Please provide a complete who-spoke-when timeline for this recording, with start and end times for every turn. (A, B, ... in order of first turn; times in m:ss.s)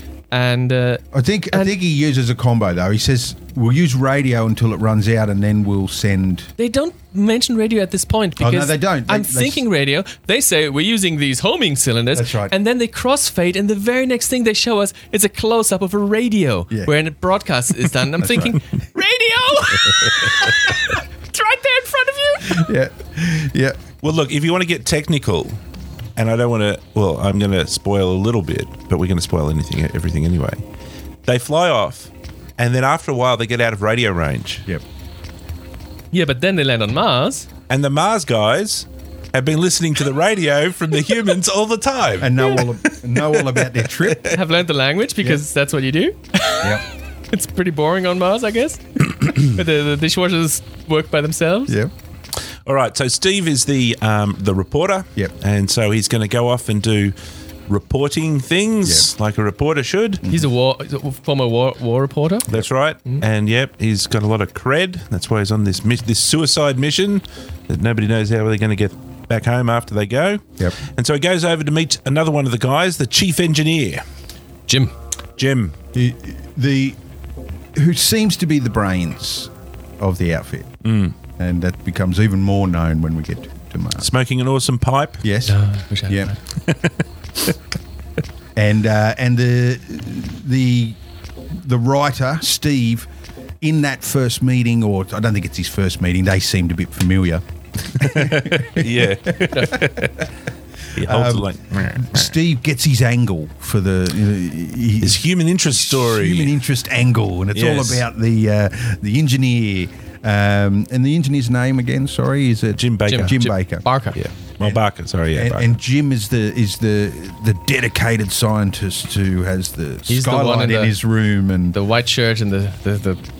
0:00.3-0:01.7 A
0:01.1-0:06.5 B
0:06.6-0:22.7 A
0:08.4-0:09.6 B
0:12.1-0:12.5 B
0:18.2-0:18.6 B
0:22.4-0:23.8 B
0:24.0-0:25.6 C
0:26.2-0:30.6 C
0:31.2-0:34.6 C
0:36.1-0:37.5 A
0:37.7-0:44.3 C
0:42.2-0:44.4 B
0:44.2-0:51.8 A
0:52.6-0:57.1 C
0:57.7-1:00.2 C
0:58.8-0:59.1 B
1:00.3-1:03.2 A
1:02.5-1:14.0 C
1:14.7-1:14.9 A
1:15.4-1:15.7 C
1:15.9-1:17.0 B
1:17.7-1:20.8 B
1:20.8-1:21.2 C
1:21.4-1:24.1 B
1:24.0-1:25.2 C
1:25.2-1:26.3 B
1:25.4-1:26.4 A
1:26.6-1:26.9 C
1:28.6-1:33.1 B
1:33.6-1:40.1 B
1:38.0-1:40.3 C
1:39.5-1:39.8 A
1:40.9-1:42.3 C
1:41.0-1:53.8 B
1:45.0-1:46.6 C
1:47.5-1:48.0 C
1:52.8-1:53.5 C
1:53.1-1:54.2 A
1:54.1-1:55.7 C
1:55.3-2:01.8 B
2:00.1-2:01.0 A
2:01.7-2:03.2 A